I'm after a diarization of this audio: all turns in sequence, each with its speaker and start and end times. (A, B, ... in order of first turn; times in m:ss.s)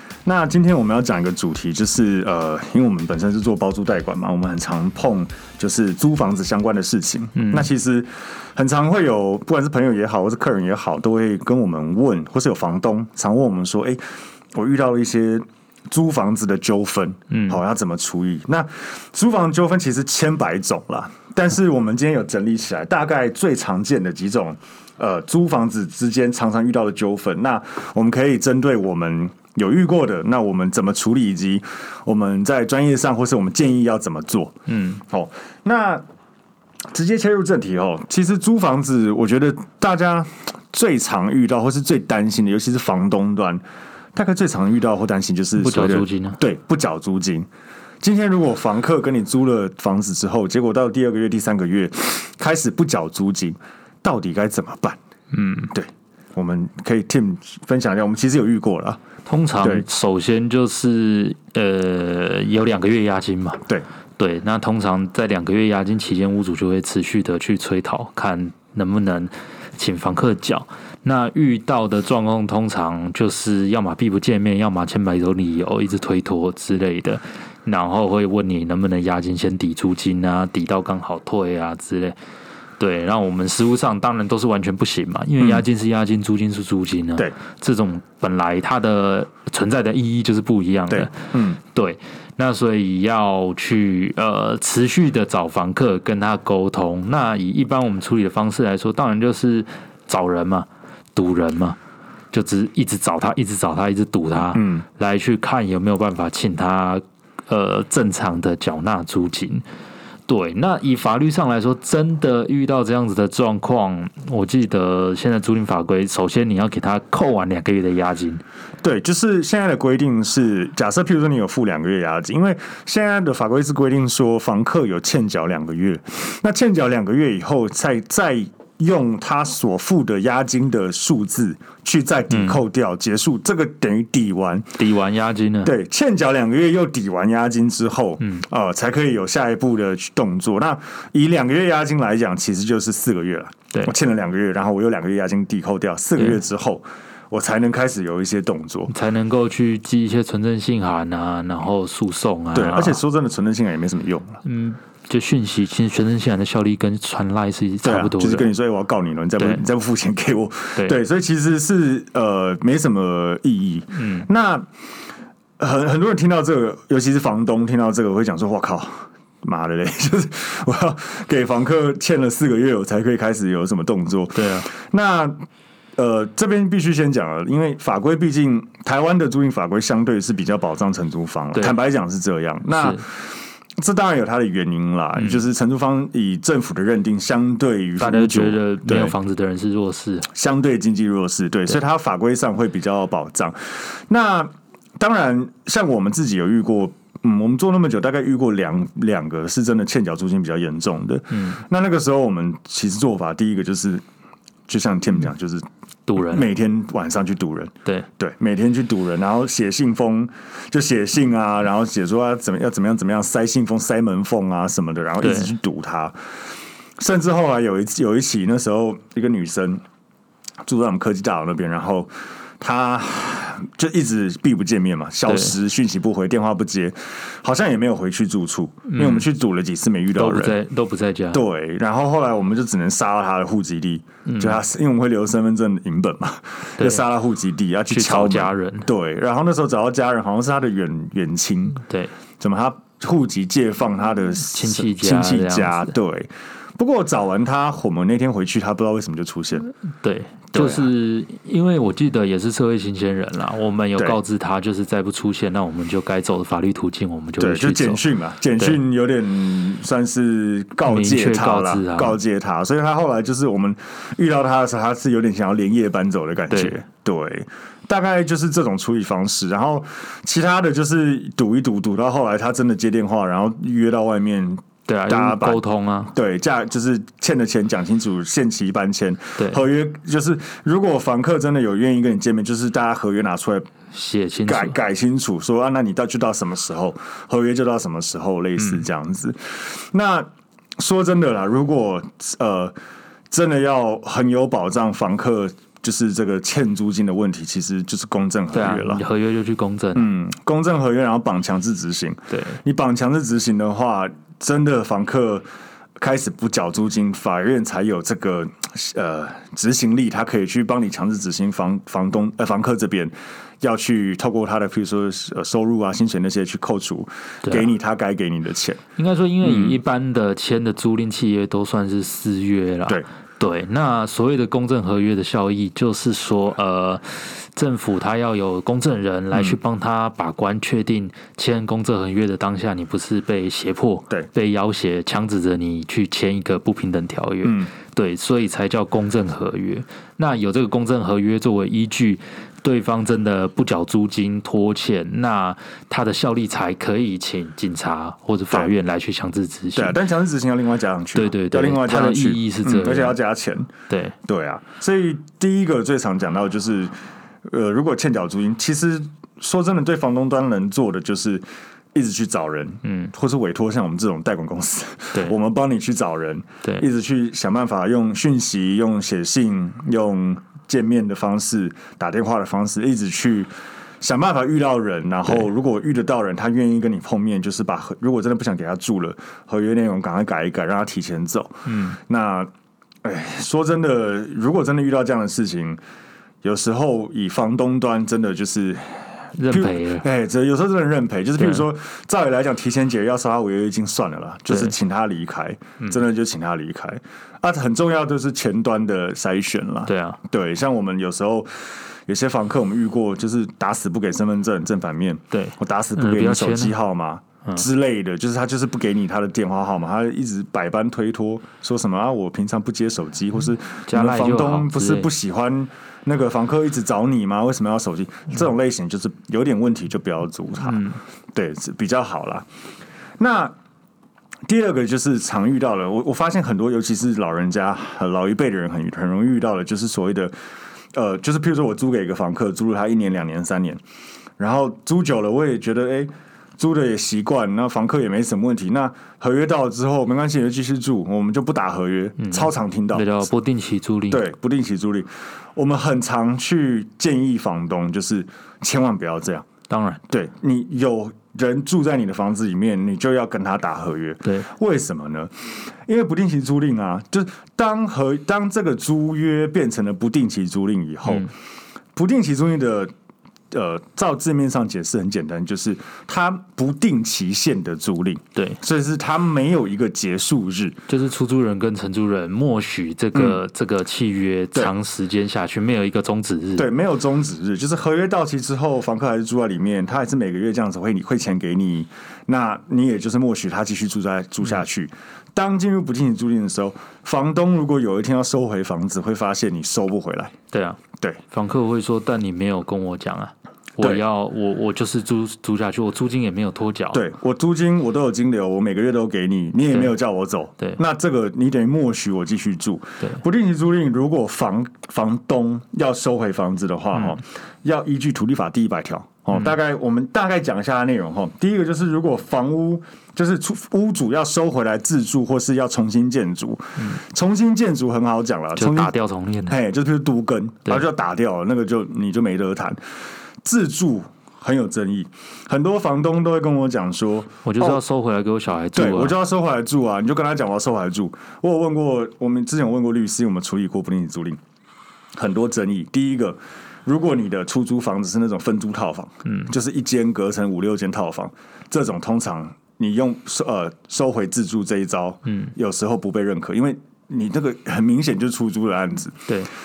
0:00.2-0:14.0 A
0:07.4-0:07.7 B
0:14.5-0:34.5 A
0:17.3-0:17.6 B
0:34.7-0:35.0 B
0:35.1-0:36.0 A
0:36.9-0:43.6 A
0:44.2-0:47.5 A
0:45.6-0:46.4 B
0:48.0-0:55.0 A
0:55.3-0:55.7 B
0:55.7-0:59.0 A
0:59.3-1:03.6 B
0:59.6-0:59.8 A
1:04.2-1:22.2 B
1:22.8-1:41.8 B
1:25.4-1:25.7 A
1:30.9-1:31.6 A
1:42.3-1:49.6 B
1:44.5-1:44.8 A
1:50.3-1:58.4 B
1:58.8-2:14.8 A
2:12.3-2:12.6 B
2:14.8-2:15.7 B
2:15.6-2:28.9 A
2:26.2-2:26.4 B
2:28.9-2:33.0 B
2:32.5-2:34.4 A
2:34.4-2:38.5 B
2:37.8-2:44.7 A
2:39.4-2:39.6 B
2:43.9-2:44.3 B
2:45.6-2:55.3 A
2:54.3-2:54.7 B
2:56.0-3:09.2 A
3:02.7-3:03.0 B
3:05.2-3:05.4 B
3:08.0-3:10.3 B
3:10.2-3:24.0 A
3:21.3-3:21.6 B
3:24.7-3:36.1 A
3:26.1-3:26.5 B
3:35.2-3:35.5 B
3:37.0-3:39.8 A
3:40.6-3:50.6 A
3:45.2-3:45.6 B
3:48.9-3:49.3 B
3:50.1-3:51.4 B
3:51.3-4:01.8 A
3:54.2-3:54.6 B
3:56.8-3:57.1 B
3:57.9-3:58.9 B
4:01.8-4:02.2 B
4:02.4-4:09.7 A
4:04.5-4:06.0 B
4:10.0-4:18.0 B
4:10.5-4:10.9 A
4:17.4-4:43.7 A
4:20.8-4:22.2 B
4:26.5-4:26.8 B
4:34.9-4:36.1 B
4:39.4-4:39.6 B
4:43.9-4:44.8 B
4:44.5-4:50.3 A
4:48.6-4:48.9 B
4:50.8-4:52.8 A
4:53.3-4:59.0 A
4:58.5-5:00.1 B
5:00.0-5:05.5 A
5:02.3-5:02.6 B
5:06.0-5:18.8 A
5:19.0-5:50.0 B
5:19.4-5:19.8 A
5:29.3-5:29.6 A
5:37.4-5:37.7 A
5:49.8-5:53.7 A
5:51.2-5:53.2 B
5:53.9-5:54.2 B
5:54.2-6:22.5 A
6:02.8-6:03.1 B
6:21.7-6:22.0 B
6:23.0-6:25.8 A
6:26.4-7:00.8 A
6:29.4-6:30.0 B
6:31.4-6:31.7 B
6:34.5-6:34.8 B
6:39.9-6:40.2 B
6:45.3-6:46.8 B
6:53.8-6:55.1 B
7:00.6-7:01.0 B
7:01.4-7:02.5 A
7:03.2-7:03.5 A
7:04.5-7:10.3 A
7:10.9-7:13.8 A
7:14.4-7:23.3 A
7:22.2-7:24.2 B
7:24.1-7:29.5 A
7:29.7-7:30.0 B
7:30.1-7:41.3 A
7:41.0-7:41.3 B
7:42.0-7:42.9 A
7:43.5-7:50.8 A
7:50.9-7:56.7 B
7:53.1-7:53.4 A
7:56.6-8:10.3 A
8:10.5-8:17.0 B
8:16.9-8:38.9 A
8:26.9-8:27.2 B
8:38.6-8:39.6 B
8:39.5-8:42.8 A
8:43.4-8:47.8 A
8:47.4-8:49.2 B
8:48.8-8:54.4 A
8:55.2-9:09.3 A
8:59.2-8:59.5 B
9:05.2-9:05.5 B